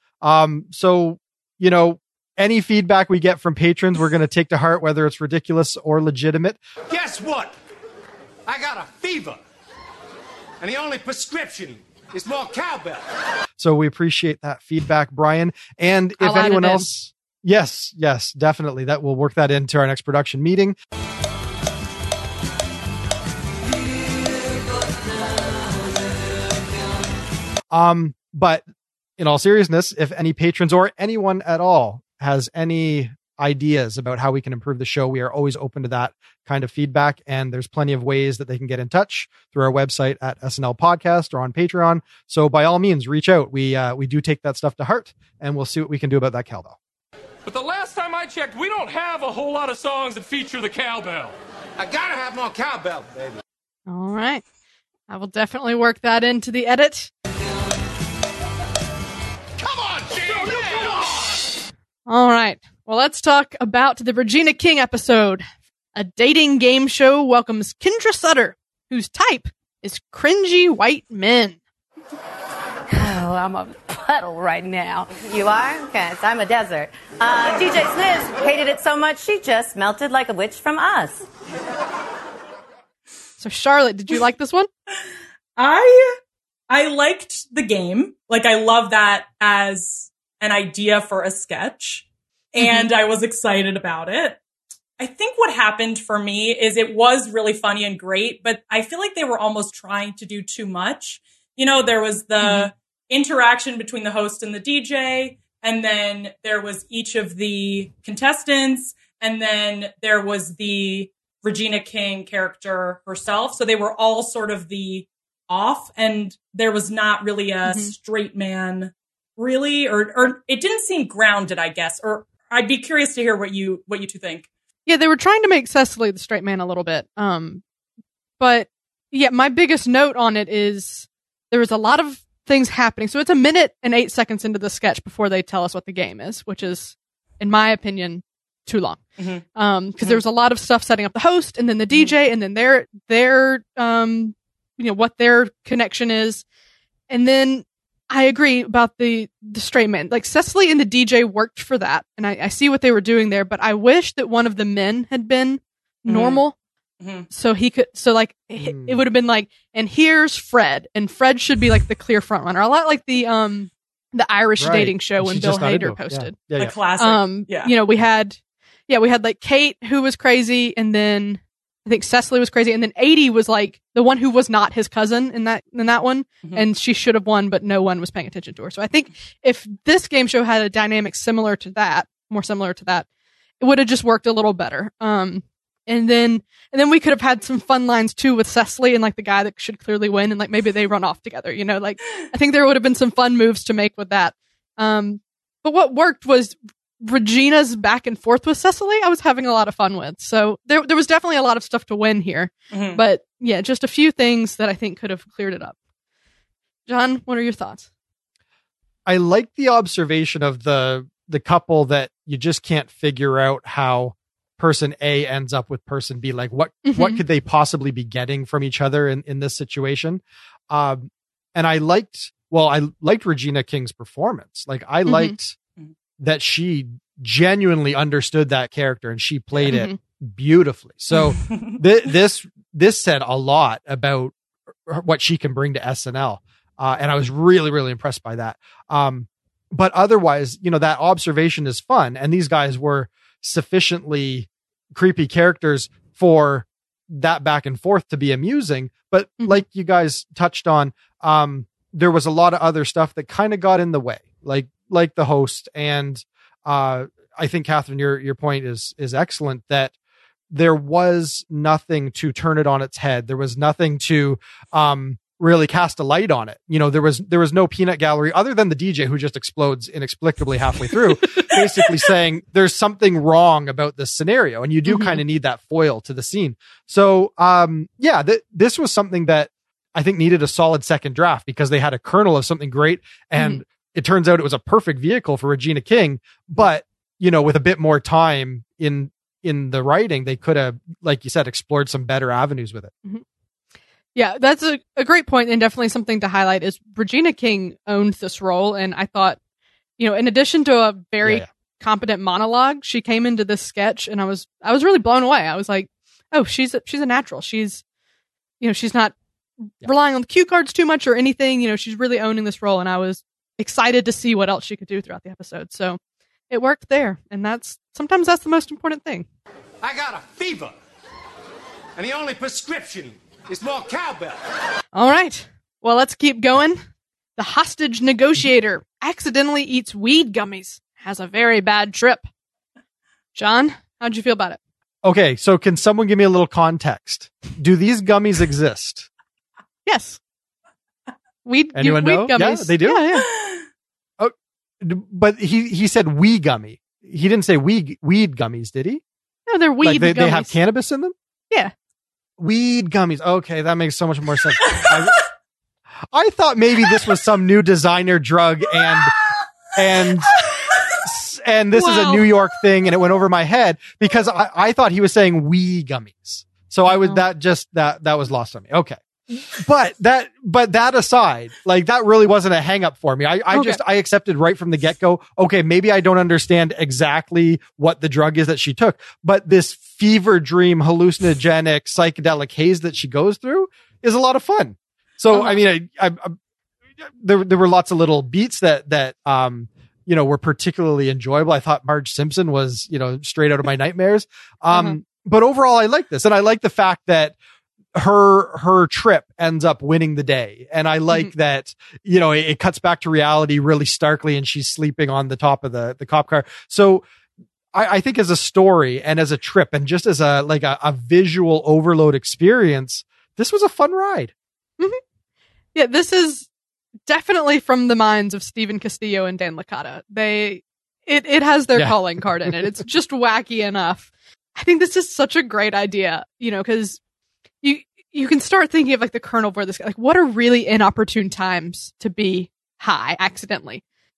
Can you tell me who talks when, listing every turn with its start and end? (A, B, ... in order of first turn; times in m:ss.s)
0:00.2-0:06.6 A
0:06.9-0:07.5 B
0:08.4-0:09.4 B
0:10.6-0:13.0 B
0:13.6-0:20.8 A
0:16.2-0:16.9 C
0:27.7-0:28.6 A
0:29.2-0:46.8 A
0:47.4-0:51.3 D
0:51.8-0:53.4 B
0:53.9-0:54.4 C
0:55.1-0:57.1 C
0:59.6-1:01.2 B
1:00.1-1:01.0 D
1:02.0-1:05.4 C
1:05.9-1:11.6 C
1:12.9-1:21.3 E
1:23.4-1:24.7 C
1:25.6-1:26.2 F
1:26.7-1:34.4 F
1:32.6-1:32.9 C
1:35.0-2:04.5 F
1:42.4-1:42.7 C
1:57.6-1:57.9 C
2:04.8-2:07.6 C
2:08.4-2:19.0 C
2:19.2-2:19.4 F
2:19.5-2:26.4 C
2:27.1-2:36.5 C
2:36.0-2:36.4 F
2:37.0-2:37.3 F
2:37.3-2:46.4 C
2:38.6-2:39.0 A
2:44.6-2:46.7 A
2:46.6-2:47.7 F
2:47.0-3:03.0 C
3:03.6-3:25.8 C
3:22.7-3:23.0 F
3:26.9-3:27.9 C
3:29.1-3:45.6 A
3:36.8-3:37.2 C
3:45.0-3:45.4 C
3:46.2-3:54.3 A
3:49.6-3:50.0 C
3:51.1-3:51.8 F
3:54.8-4:19.9 A
4:09.4-4:09.6 C
4:20.5-4:52.9 A
4:34.9-4:35.2 C
4:54.1-4:59.4 C
5:00.0-5:07.8 C
5:01.2-5:01.5 A
5:08.6-5:09.1 C
5:09.8-5:16.0 C
5:16.5-5:19.2 C
5:19.8-5:20.7 B
5:22.0-5:24.4 B
5:24.9-5:26.8 C
5:27.4-5:32.2 C
5:33.3-5:34.6 C
5:35.0-5:39.1 A
5:39.8-5:40.2 C
5:41.4-5:43.3 C
5:41.7-5:43.2 A
5:44.2-5:49.0 A
5:49.5-5:50.5 C
5:49.8-5:51.1 A
5:52.4-5:55.2 A
5:56.1-5:59.1 A
5:59.7-6:00.4 A
6:00.9-6:26.4 A
6:01.7-6:02.2 C
6:06.9-6:07.2 C
6:13.5-6:13.8 C
6:25.3-6:25.6 C
6:27.0-6:37.4 A
6:34.7-6:35.0 C
6:37.9-6:47.0 A
6:47.7-6:54.3 A
6:55.7-6:56.5 C
6:57.1-7:07.0 C
7:01.7-7:02.5 A
7:07.6-7:13.8 C